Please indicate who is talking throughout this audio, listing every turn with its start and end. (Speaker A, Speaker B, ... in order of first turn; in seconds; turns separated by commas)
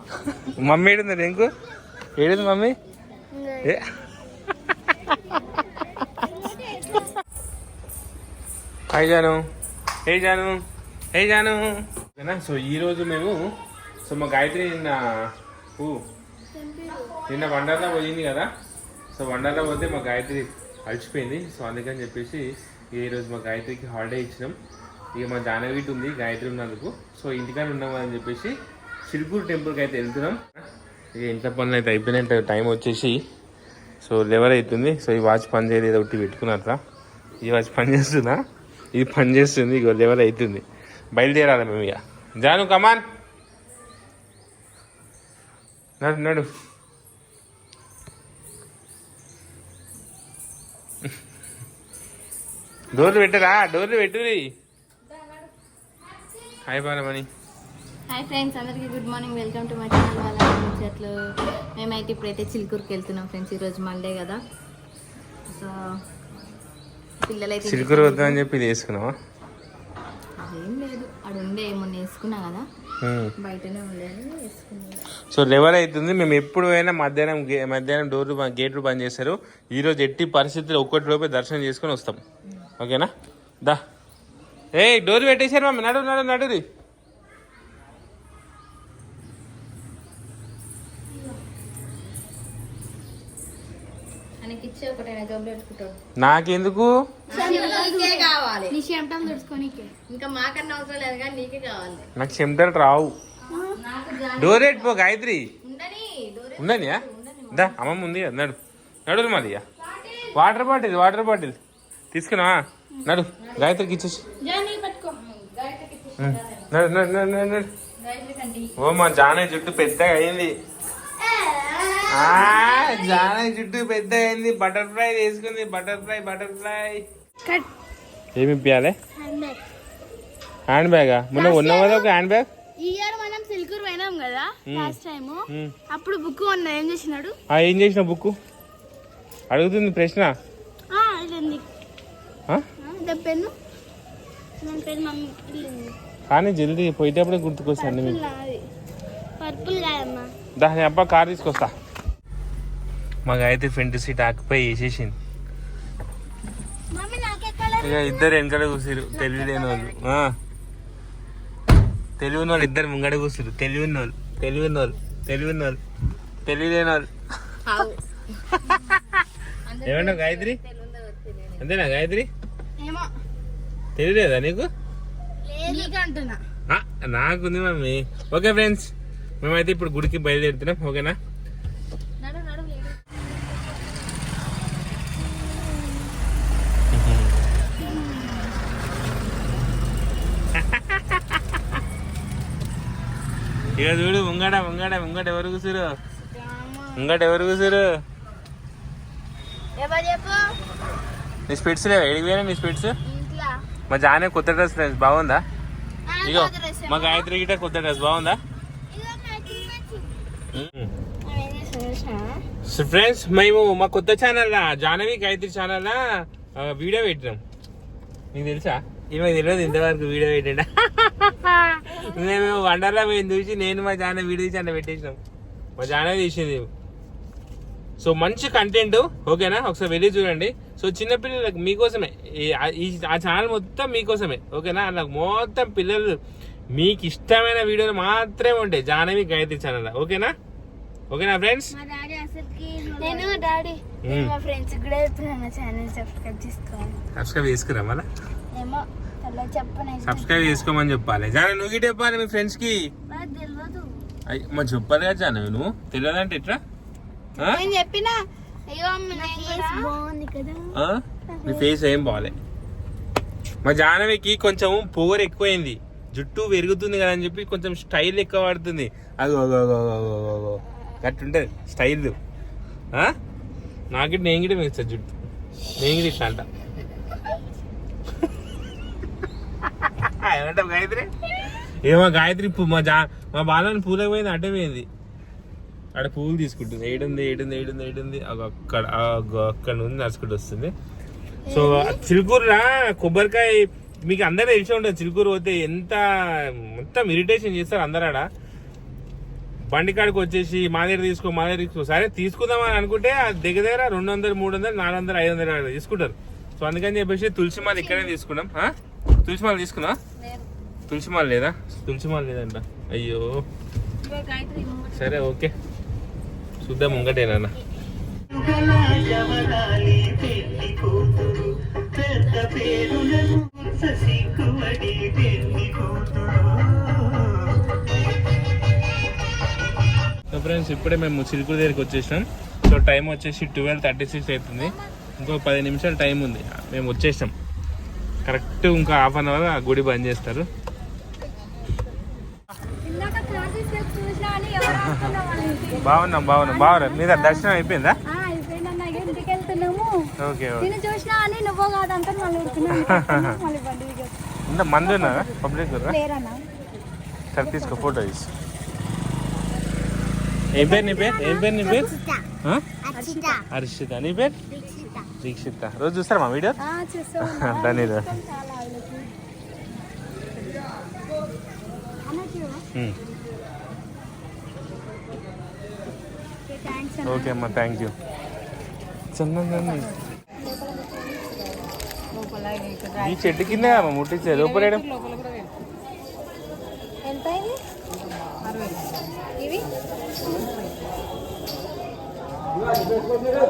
Speaker A: 0.5-1.5, Speaker A: 2.2-2.8, Speaker B: 3.4-3.8, Speaker A: 4.9-5.4, Speaker A: 8.9-9.4, Speaker A: 10.1-10.6, Speaker A: 11.1-13.4, Speaker A: 14.1-15.0, Speaker B: 16.5-17.2, Speaker A: 17.3-18.5, Speaker A: 19.1-24.6, Speaker A: 25.1-33.2, Speaker A: 34.0-36.8, Speaker A: 37.4-38.4, Speaker A: 38.9-43.0, Speaker A: 46.0-46.5, Speaker A: 52.9-54.5, Speaker A: 56.7-57.3, Speaker C: 58.1-61.1, Speaker C: 61.8-64.4, Speaker C: 65.5-65.8, Speaker C: 67.2-68.5, Speaker A: 67.6-69.1, Speaker C: 70.4-72.7, Speaker A: 73.0-73.3, Speaker C: 73.4-75.0, Speaker A: 75.3-82.2, Speaker A: 82.8-83.1, Speaker A: 84.8-86.6, Speaker C: 94.4-96.0, Speaker A: 96.2-96.9, Speaker C: 97.3-99.4, Speaker B: 97.3-99.9, Speaker D: 97.4-98.1, Speaker C: 100.1-102.1, Speaker A: 102.2-103.1, Speaker B: 103.5-103.8, Speaker C: 103.8-105.0, Speaker A: 104.4-105.4, Speaker C: 105.6-107.8, Speaker A: 106.6-107.0, Speaker A: 107.5-108.6, Speaker A: 109.1-109.6, Speaker A: 110.3-111.6, Speaker A: 112.1-114.2, Speaker B: 114.5-115.1, Speaker C: 115.1-116.7, Speaker A: 116.2-117.7, Speaker C: 118.0-118.8, Speaker A: 118.8-120.5, Speaker B: 121.2-123.3, Speaker A: 122.1-127.0, Speaker A: 128.4-128.9, Speaker B: 129.2-129.6, Speaker A: 130.7-132.5, Speaker B: 131.3-132.1, Speaker B: 132.8-137.3, Speaker A: 134.7-135.0, Speaker A: 137.5-138.3, Speaker A: 139.5-140.3, Speaker B: 140.9-141.7, Speaker B: 142.8-143.5, Speaker B: 144.6-145.9, Speaker A: 146.3-148.2, Speaker B: 147.8-148.7, Speaker B: 149.4-150.3, Speaker A: 150.6-151.7, Speaker A: 153.2-155.2, Speaker B: 156.9-158.3, Speaker A: 157.8-160.3, Speaker B: 159.1-160.0, Speaker A: 162.2-165.8, Speaker A: 166.4-167.1, Speaker C: 167.7-168.0, Speaker A: 168.6-168.8, Speaker C: 169.7-171.7, Speaker A: 169.8-170.6, Speaker A: 171.6-172.3, Speaker B: 172.8-173.1, Speaker A: 174.0-174.7, Speaker B: 175.5-176.4, Speaker A: 176.7-178.9, Speaker A: 179.4-181.2, Speaker C: 182.3-182.8, Speaker A: 186.9-187.3, Speaker B: 187.8-188.4, Speaker A: 190.6-191.6, Speaker A: 193.8-195.9, Speaker B: 196.2-197.2, Speaker A: 197.0-197.9, Speaker B: 199.8-200.5, Speaker A: 201.5-202.9, Speaker B: 203.1-203.6, Speaker A: 203.9-205.4, Speaker B: 206.1-207.3, Speaker A: 206.2-208.4, Speaker B: 208.9-210.1, Speaker A: 210.6-210.9, Speaker B: 211.2-212.4, Speaker A: 212.7-217.4, Speaker A: 218.3-225.2, Speaker A: 225.8-226.7, Speaker A: 228.0-236.2, Speaker A: 236.7-240.3, Speaker A: 241.1-241.8, Speaker B: 241.8-247.0, Speaker D: 242.8-243.4, Speaker A: 244.0-244.3, Speaker A: 247.2-248.1, Speaker B: 248.5-250.7, Speaker A: 250.0-252.9, Speaker B: 253.1-253.9, Speaker A: 254.3-256.6, Speaker A: 257.4-257.6, Speaker B: 257.4-258.2, Speaker B: 258.7-260.7, Speaker D: 259.1-259.5, Speaker A: 260.8-262.4, Speaker B: 261.3-261.7, Speaker A: 263.6-272.2, Speaker A: 273.9-275.1, Speaker A: 275.8-276.5, Speaker A: 279.9-281.1, Speaker A: 281.8-284.9, Speaker A: 285.9-290.7, Speaker B: 291.5-292.0, Speaker A: 291.5-298.3, Speaker A: 299.7-308.7, Speaker A: 309.2-310.0, Speaker A: 310.9-313.4, Speaker C: 314.1-314.8, Speaker A: 314.9-315.5, Speaker A: 316.6-317.5, Speaker D: 318.3-327.3, Speaker A: 330.3-337.3, Speaker A: 338.3-340.5, Speaker B: 342.9-345.7, Speaker A: 344.6-345.1, Speaker A: 345.8-348.0, Speaker B: 346.5-347.4, Speaker B: 348.1-349.9, Speaker A: 350.2-350.7, Speaker B: 350.8-354.1, Speaker A: 352.7-353.4, Speaker A: 354.5-356.0, Speaker B: 356.0-356.3, Speaker A: 357.3-358.3, Speaker A: 360.5-361.9, Speaker B: 360.6-362.2, Speaker B: 362.8-363.4, Speaker D: 363.0-363.4, Speaker A: 363.5-364.4, Speaker B: 364.5-365.1, Speaker A: 365.2-366.6, Speaker B: 367.1-369.1, Speaker A: 367.2-368.1, Speaker B: 372.1-372.6, Speaker B: 376.5-377.3, Speaker A: 377.0-377.9, Speaker A: 379.1-379.9, Speaker C: 382.2-383.9, Speaker A: 382.9-384.9, Speaker C: 387.1-387.6